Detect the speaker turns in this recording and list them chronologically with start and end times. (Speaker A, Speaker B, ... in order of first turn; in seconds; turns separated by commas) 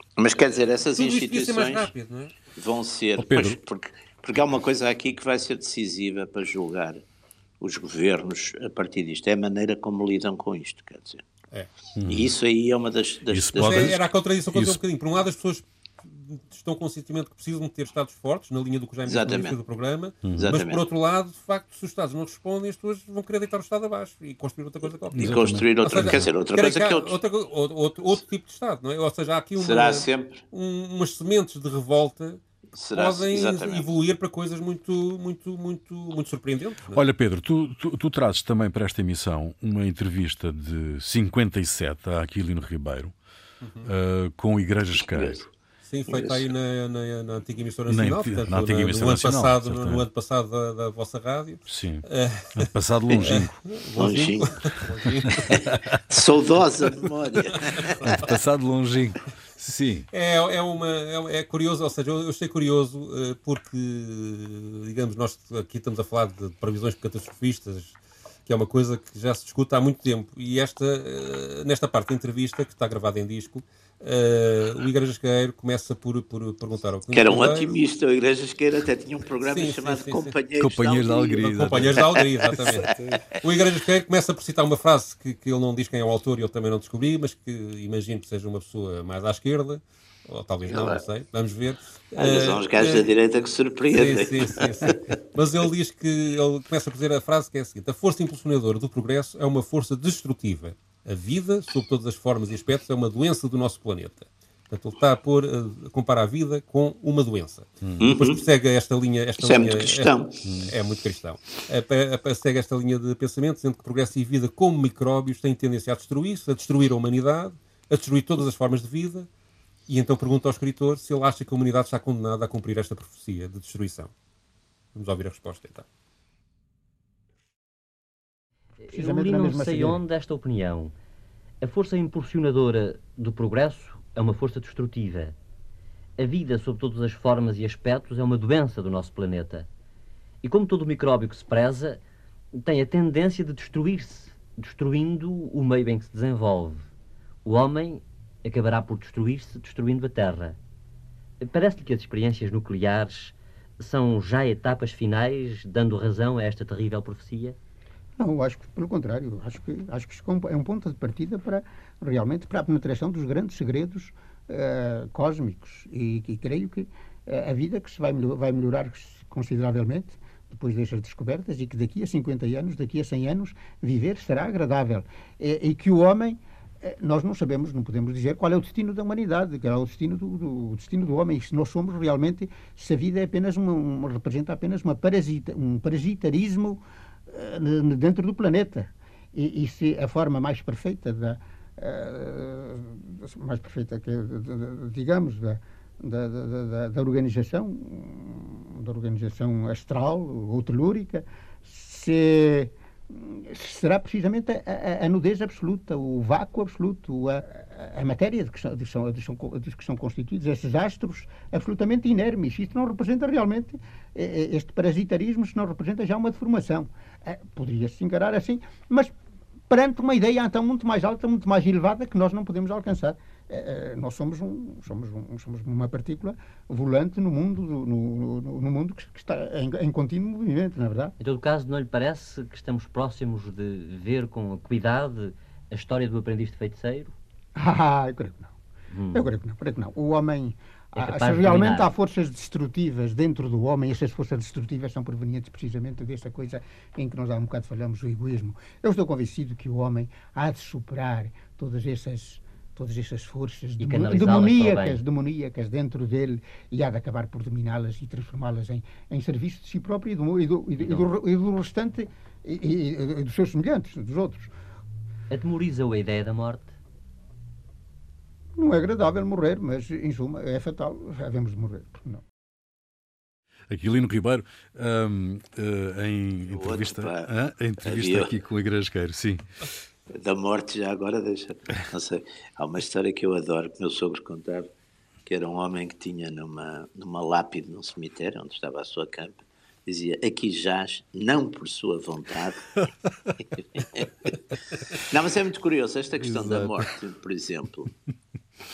Speaker A: 0.2-1.9, Speaker B: 0.9-2.3, Speaker A: 2.5-7.0, Speaker C: 3.2-3.5, Speaker A: 7.6-11.2, Speaker C: 11.9-12.3, Speaker A: 12.1-14.0, Speaker C: 13.3-14.0, Speaker B: 13.6-32.4, Speaker C: 14.5-14.8, Speaker A: 19.1-19.6, Speaker C: 20.2-20.5, Speaker A: 20.4-20.8, Speaker C: 25.1-26.3, Speaker A: 25.2-27.1, Speaker A: 29.6-30.4, Speaker A: 32.8-33.9, Speaker B: 32.9-37.0, Speaker C: 36.9-43.1, Speaker B: 43.6-43.9, Speaker C: 43.8-45.4, Speaker A: 44.9-45.5, Speaker B: 45.9-55.8, Speaker A: 46.1-46.5, Speaker C: 47.9-50.0, Speaker C: 51.7-53.6, Speaker A: 54.0-54.6, Speaker A: 55.5-58.1, Speaker B: 57.7-58.0, Speaker C: 58.0-60.1, Speaker B: 60.1-77.7, Speaker A: 77.1-82.7, Speaker B: 79.4-80.3, Speaker C: 80.6-83.2, Speaker B: 81.4-93.1, Speaker A: 90.7-91.0, Speaker A: 92.2-95.0, Speaker B: 93.9-119.3, Speaker A: 108.0-108.4, Speaker A: 109.4-110.3, Speaker C: 110.4-110.7, Speaker B: 119.9-124.1, Speaker B: 124.9-125.8, Speaker D: 128.8-130.9, Speaker E: 128.9-130.0, Speaker D: 131.6-135.3, Speaker D: 136.2-139.7, Speaker D: 140.4-142.0, Speaker D: 142.5-146.9, Speaker D: 147.4-150.6, Speaker D: 151.4-157.6, Speaker E: 158.2-219.1, Speaker E: 219.7-231.1, Speaker D: 231.2-237.2, Speaker E: 237.6-238.5, Speaker D: 238.9-239.3, Speaker E: 239.1-264.5, Speaker D: 240.9-241.9, Speaker D: 253.8-255.0, Speaker D: 260.8-261.1, Speaker D: 265.3-266.7, Speaker E: 268.6-272.2, Speaker C: 273.7-279.4, Speaker A: 276.5-278.3, Speaker A: 280.1-284.7, Speaker A: 285.2-292.7, Speaker A: 293.8-294.1, Speaker A: 294.9-297.9, Speaker C: 296.2-296.9